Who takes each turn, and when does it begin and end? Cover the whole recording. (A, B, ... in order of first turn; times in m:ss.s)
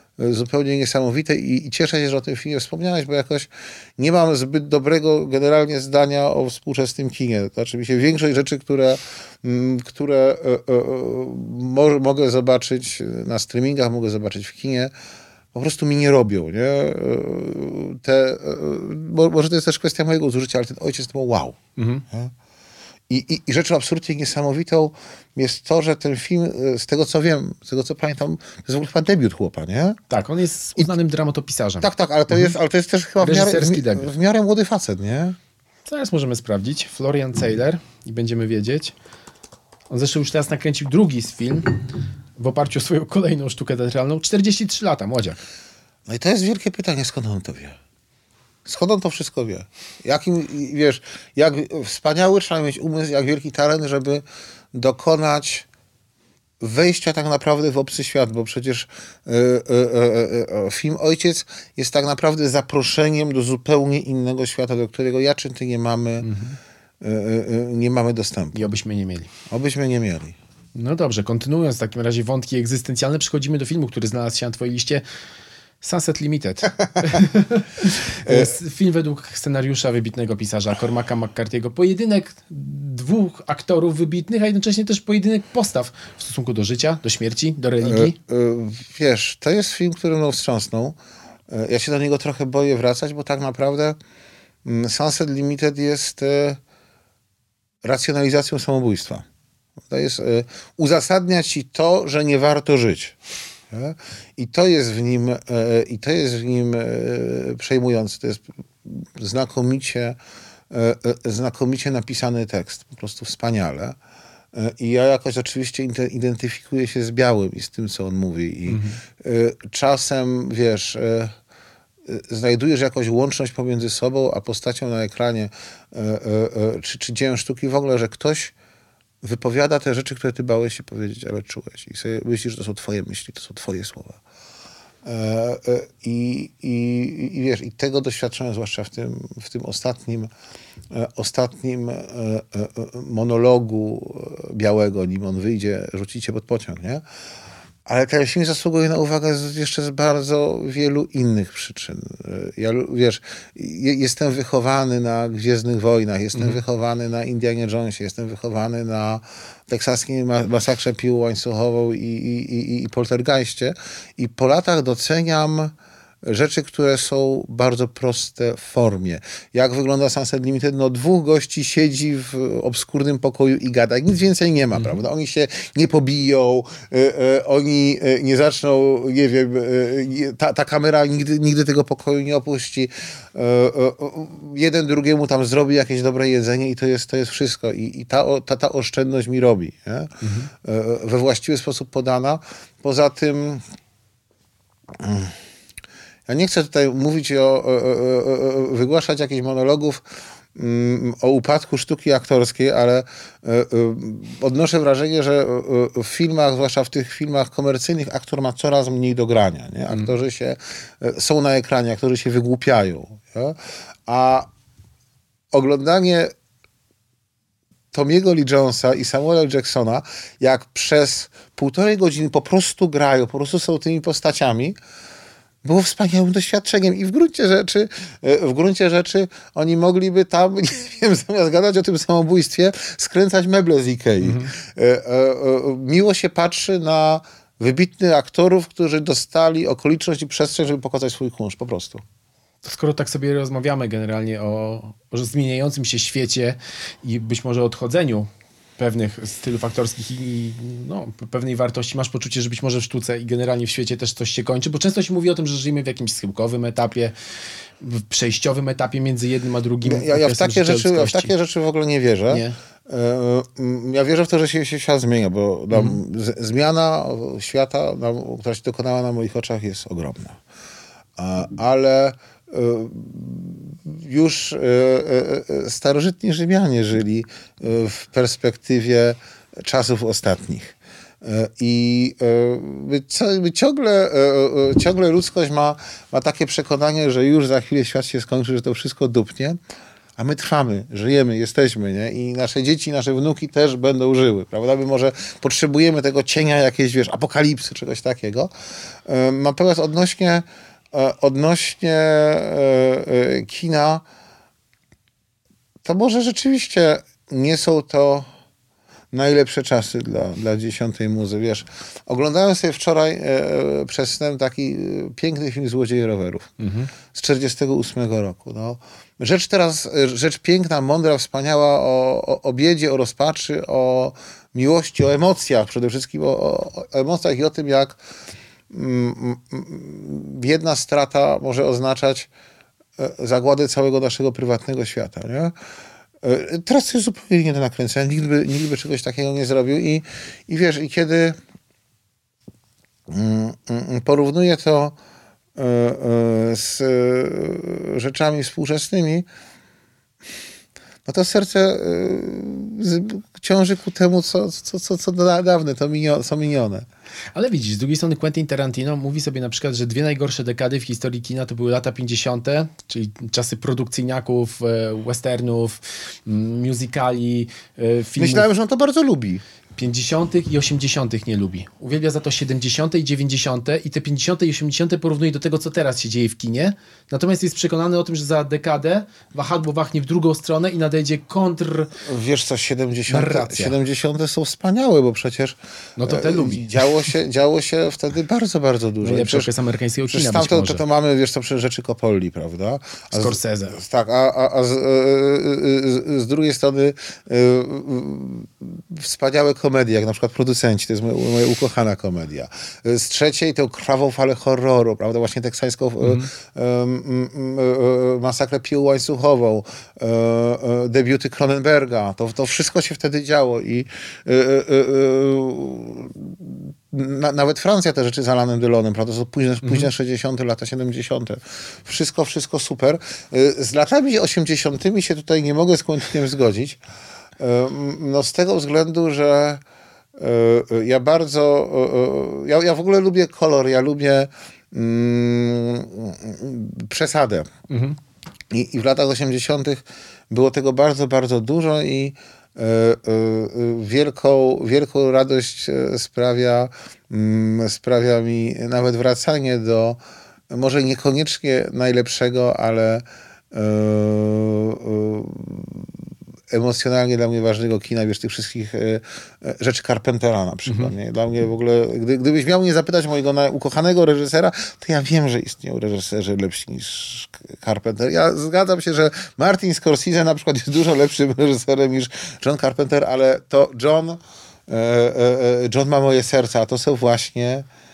0:00.2-0:14.9 A
0:15.5-0:21.6 A
0:21.8-0:22.0 B
0:23.1-0:30.0 A
0:30.1-0:32.5 B
0:31.8-0:35.4 A
0:33.2-0:34.1 B
0:35.8-0:38.9 B
0:39.9-0:41.8 B
0:42.4-0:45.4 B
0:46.1-0:47.8 A
0:48.6-0:55.7 A
0:56.6-1:06.3 A
1:06.2-1:06.6 B
1:07.0-1:08.7 A
1:08.5-1:09.3 B
1:09.5-1:10.4 A
1:10.7-1:15.0 B
1:15.8-1:28.2 B
1:18.2-1:18.5 A
1:27.8-1:31.0 A
1:31.5-1:34.0 A
1:34.6-1:36.6 A
1:37.8-1:39.2 A
1:39.9-1:43.2 A
1:43.7-1:50.2 A
1:50.7-1:54.0 A
1:54.5-2:01.3 A
1:58.7-1:59.0 B
2:02.0-2:08.5 A
2:09.2-2:14.2 A
2:15.0-2:20.3 A
2:20.9-2:27.0 A
2:27.8-3:13.6 A
2:36.3-2:36.6 B
3:10.2-3:10.5 B
3:14.9-3:15.3 A
3:16.3-3:34.5 A
3:35.5-3:36.3 A
3:37.9-3:44.8 A
3:45.6-4:02.0 A
3:54.2-3:54.5 B
4:02.6-4:17.1 B
4:17.8-4:21.3 B
4:19.8-4:30.4 A
4:22.3-4:22.6 B
4:25.7-4:26.0 B
4:31.2-4:49.6 A
4:50.2-4:58.5 A
4:59.0-5:04.0 A
5:05.8-5:08.3 A
5:09.1-5:16.6 A
5:16.6-5:16.9 B
5:17.1-5:28.0 A
5:28.7-5:32.3 A
5:33.0-5:35.5 A
5:36.2-5:41.4 A
5:43.1-5:45.0 A
5:45.6-5:49.3 A
5:51.0-5:56.8 A
5:57.3-6:08.5 B
6:08.2-6:09.4 A
6:09.8-6:21.9 B
6:22.0-6:29.5 A
6:23.1-6:23.8 B
6:26.0-6:27.1 B
6:29.0-6:30.8 B
6:30.1-7:06.8 A
6:33.1-6:33.8 B
6:46.0-6:46.3 B
6:59.6-6:59.9 B
7:07.4-7:09.6 A
7:10.2-7:17.5 A
7:17.7-7:18.0 B
7:18.5-7:30.0 A
7:30.5-7:35.9 A
7:36.5-7:57.7 A
7:40.7-7:40.9 B